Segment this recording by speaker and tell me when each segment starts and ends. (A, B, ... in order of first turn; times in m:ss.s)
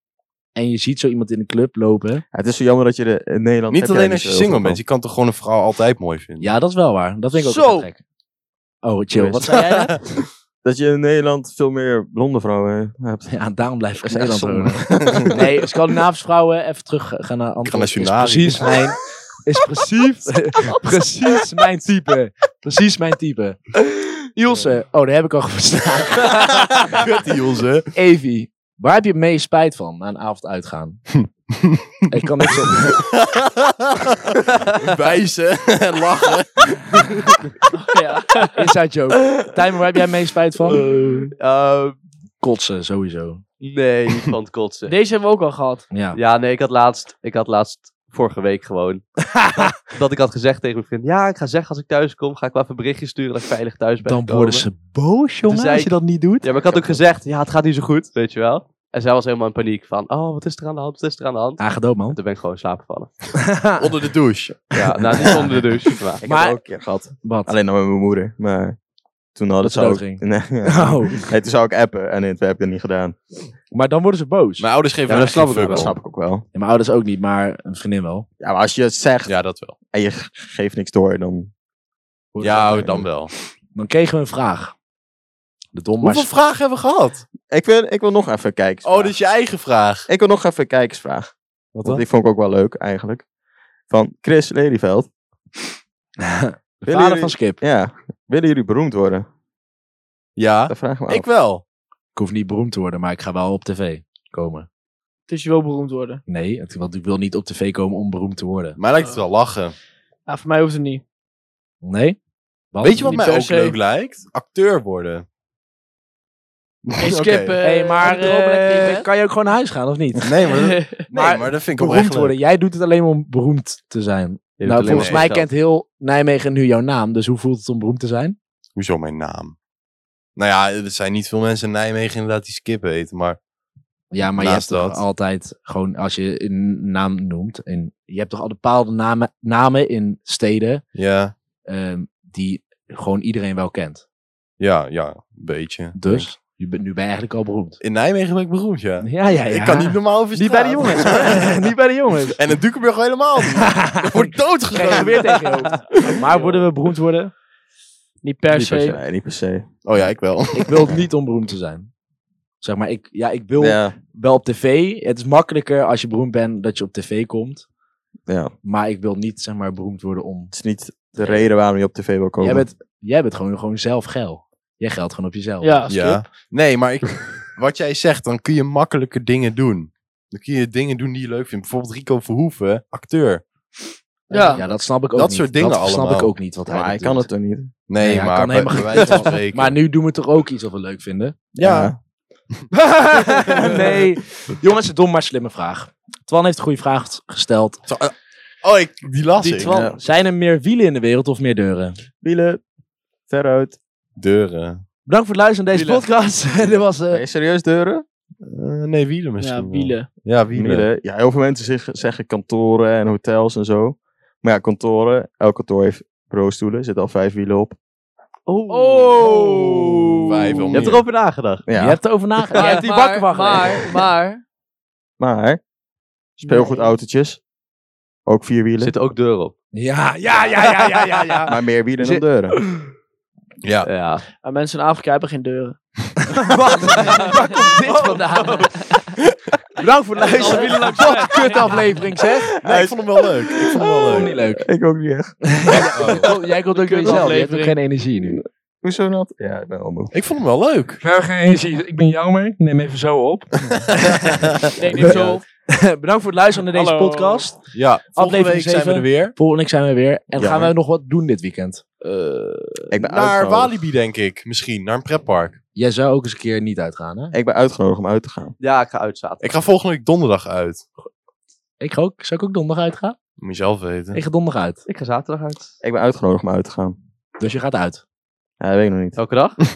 0:00.6-0:02.2 A
0:02.3-0:04.8 B
0:03.7-0:06.5 C
0:06.4-0:08.0 A
0:07.4-0:07.9 D
0:08.8-0:10.0 A
0:09.1-0:10.0 B
0:09.6-0:09.9 D
0:10.6-0:13.3 B
0:13.3-0:27.0 A
0:14.1-0:15.4 B
0:14.9-0:15.4 C
0:17.6-0:18.8 C
0:26.5-0:27.9 C
0:27.9-0:31.1 A
0:32.1-0:33.0 A
0:32.6-0:37.4 C
0:37.8-0:38.7 D
0:38.5-0:40.8 A
0:40.7-0:41.3 C
0:41.4-0:42.0 E
0:42.4-0:43.4 A
0:43.6-0:45.0 E
0:44.9-0:45.9 D
0:45.9-0:46.2 A
0:46.1-0:54.7 E
0:49.3-0:49.7 A
0:54.0-0:57.0 A
0:55.5-1:03.3 E
1:01.6-1:02.2 A
1:03.4-1:03.9 A
1:03.8-1:05.6 C
1:04.7-1:06.2 E
1:05.1-1:05.5 A
1:06.2-1:08.8 B
1:06.2-1:06.6 A
1:07.2-1:07.5 A
1:09.4-1:13.2 B
1:09.6-1:11.2 A
1:13.7-1:14.7 A
1:14.6-1:15.9 C
1:15.1-1:15.9 E
1:15.7-1:16.4 B
1:16.5-1:18.3 A
1:18.4-1:19.3 B
1:19.3-1:19.8 C
1:19.9-1:21.5 B
1:22.3-1:23.2 A
1:22.4-1:23.3 C
1:23.7-1:24.7 A
1:25.7-1:26.3 A
1:26.0-1:27.2 C
1:27.5-1:29.1 B
1:28.8-1:30.1 C
1:30.1-1:31.3 B
1:31.7-1:32.0 C
1:31.8-1:33.2 B
1:33.9-1:35.1 B
1:36.2-1:37.6 A
1:36.9-1:39.3 B
1:40.4-1:41.6 C
1:40.7-1:41.3 B
1:42.2-1:44.7 A
1:45.3-1:46.2 D
1:46.3-1:48.8 A
1:48.8-1:49.8 C
1:50.3-1:51.0 D
1:51.8-1:52.2 A
1:52.7-1:53.2 A
1:52.8-1:55.2 C
1:53.0-1:53.8 D
1:56.9-1:57.6 C
1:57.0-1:59.1 D
1:57.6-2:00.3 A
2:00.2-2:02.4 C
2:00.4-2:01.0 D
2:01.1-2:08.4 A
2:04.6-2:05.5 E
2:04.9-2:05.3 C
2:08.8-2:09.6 C
2:10.4-2:13.4 C
2:14.1-2:20.8 A
2:14.4-2:15.0 C
2:21.0-2:21.3 C
2:21.7-2:24.0 A
2:24.6-2:26.3 C
2:26.0-2:27.8 A
2:27.8-2:31.7 C
2:29.0-2:32.4 A
2:32.3-2:35.4 C
2:33.7-2:37.3 A
2:36.0-2:36.5 D
2:38.2-2:39.0 D
2:38.5-2:39.7 B
2:39.8-2:41.0 C
2:40.5-2:41.9 A
2:42.6-2:47.6 A
2:43.6-2:44.0 B
2:48.3-2:48.5 B
2:48.6-2:50.5 A
2:50.5-2:52.7 B
2:52.4-2:56.2 A
2:55.6-2:55.9 D
2:55.9-3:03.4 C
3:04.3-3:04.6 D
3:04.3-3:07.3 A
3:05.2-3:06.3 C
3:06.7-3:07.7 B
3:07.9-3:09.8 C
3:08.0-3:11.6 A
3:11.6-3:12.0 B
3:11.6-3:11.9 C
3:12.7-3:17.8 A
3:13.3-3:14.0 C
3:17.9-3:19.8 C
3:19.6-3:22.0 A
3:19.6-3:20.0 B
3:19.6-3:19.9 D
3:22.2-3:22.6 B
3:23.3-3:23.8 B
3:24.2-3:24.8 C
3:25.1-3:27.2 A
3:25.7-3:26.1 E
3:26.6-3:28.0 B
3:28.4-3:30.9 C
3:29.4-3:30.1 D
3:30.5-3:37.8 B
3:38.5-3:41.6 E
3:38.7-3:39.9 D
3:39.2-3:39.9 A
3:40.2-3:41.0 C
3:41.7-3:42.0 B
3:41.8-3:44.0 A
3:42.6-3:44.4 D
3:45.2-3:45.6 B
3:46.4-3:46.9 D
3:46.4-3:47.4 B
3:48.3-3:48.9 B
3:48.8-3:49.5 E
3:49.8-3:52.9 A
3:50.4-3:51.4 E
3:51.5-3:52.6 B
3:53.6-3:53.9 C
3:53.8-3:54.2 E
3:54.4-3:55.8 D
3:56.3-3:58.7 A
3:56.4-3:59.1 D
3:56.8-3:58.7 E
3:59.8-4:02.6 A
4:00.2-4:02.0 D
4:00.2-4:01.4 E
4:02.6-4:04.3 C
4:02.6-4:05.9 B
4:04.1-4:04.7 A
4:05.4-4:08.4 A
4:05.7-4:07.8 D
4:06.0-4:06.3 C
4:08.2-4:10.1 B
4:10.1-4:11.0 C
4:11.0-4:17.6 A
4:13.7-4:14.7 C
4:14.8-4:15.4 D
4:14.9-4:15.4 E
4:16.7-4:17.5 D
4:17.7-4:19.3 C
4:18.1-4:22.9 A
4:20.4-4:20.7 B
4:22.9-4:23.7 B
4:23.0-4:25.6 C
4:25.8-4:27.3 A
4:27.3-4:28.5 B
4:28.6-4:29.5 E
4:29.4-4:30.8 C
4:31.8-4:33.2 A
4:33.4-4:34.2 C
4:34.1-4:34.8 A
4:34.9-4:35.7 E
4:35.8-4:37.0 B
4:37.4-4:38.0 A
4:38.6-4:39.2 B
4:39.2-4:39.6 E